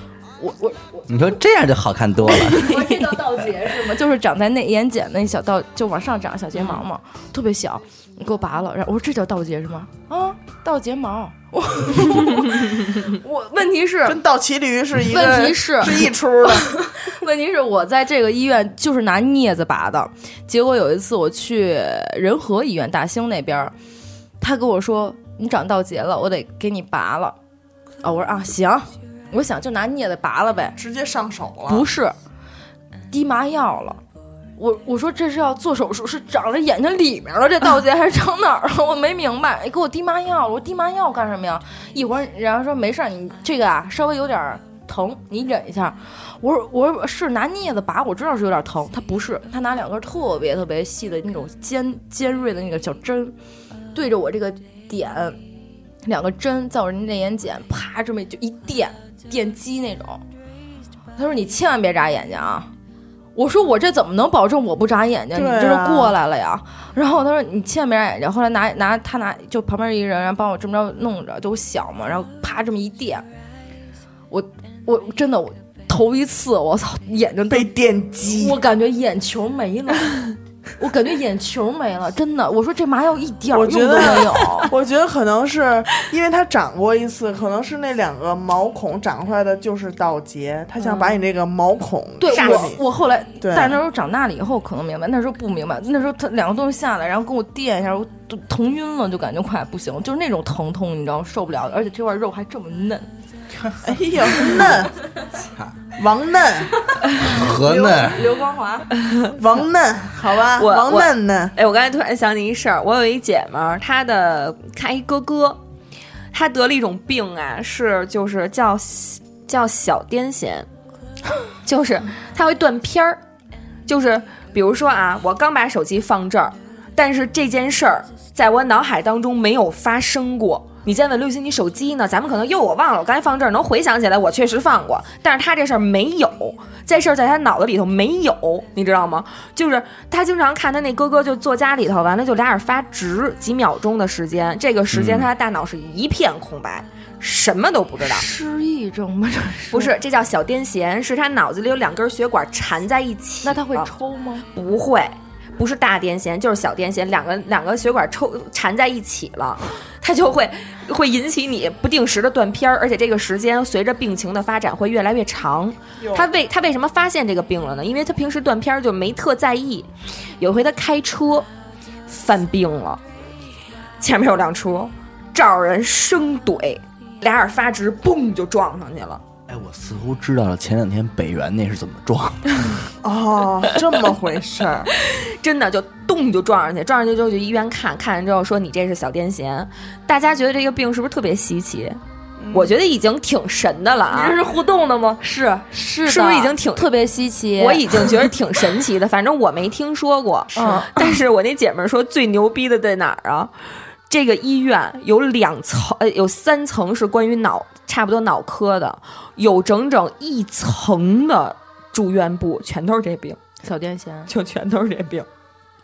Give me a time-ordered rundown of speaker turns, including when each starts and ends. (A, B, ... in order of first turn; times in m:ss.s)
0:00.4-0:01.1 A
0:01.1-0:02.8 B
0:02.3-0:14.2 A
0:14.0-0:16.8 C
0:15.0-0:23.7 A
0:24.4-0:27.4 A
0:28.0-0:30.8 A
0:30.7-0:31.8 C
0:31.7-0:32.1 A
0:33.1-0:34.0 A
0:34.6-0:53.3 A
0:53.9-0:55.4 A
0:56.0-1:00.2 A
1:01.2-1:02.7 A
1:03.3-1:13.2 A
1:05.3-1:06.2 C
1:14.3-1:17.7 A
1:17.5-1:18.6 C
1:18.3-1:24.7 A
1:23.5-1:32.8 C
1:30.8-1:31.2 A
1:32.2-1:43.1 A
1:32.3-1:32.7 D
1:33.4-1:33.8 C
1:43.8-1:45.0 C
1:46.0-1:46.8 C
1:47.0-1:48.9 A
1:47.2-1:48.3 B
1:49.0-1:49.3 D
1:49.4-1:51.5 C
1:50.6-1:55.6 D
1:56.3-2:00.7 D
2:01.6-2:03.2 D
2:03.9-2:28.2 D
2:24.9-2:25.3 B
2:28.0-2:29.9 A
2:29.7-2:33.9 D
2:33.4-2:34.4 A
2:34.5-2:51.5 D
2:46.0-2:46.3 C
2:52.1-2:53.0 D
2:54.0-2:59.2 D
2:59.5-3:02.7 B
3:03.0-3:04.9 C
3:04.9-3:12.0 D
3:12.4-3:12.8 C
3:12.5-3:14.4 D
3:14.1-3:18.3 A
3:16.0-3:16.9 D
3:17.6-3:23.5 D
3:20.5-3:20.9 C
3:20.5-3:21.1 A
3:24.1-3:33.4 D
3:33.6-3:34.3 A
3:34.3-3:35.3 D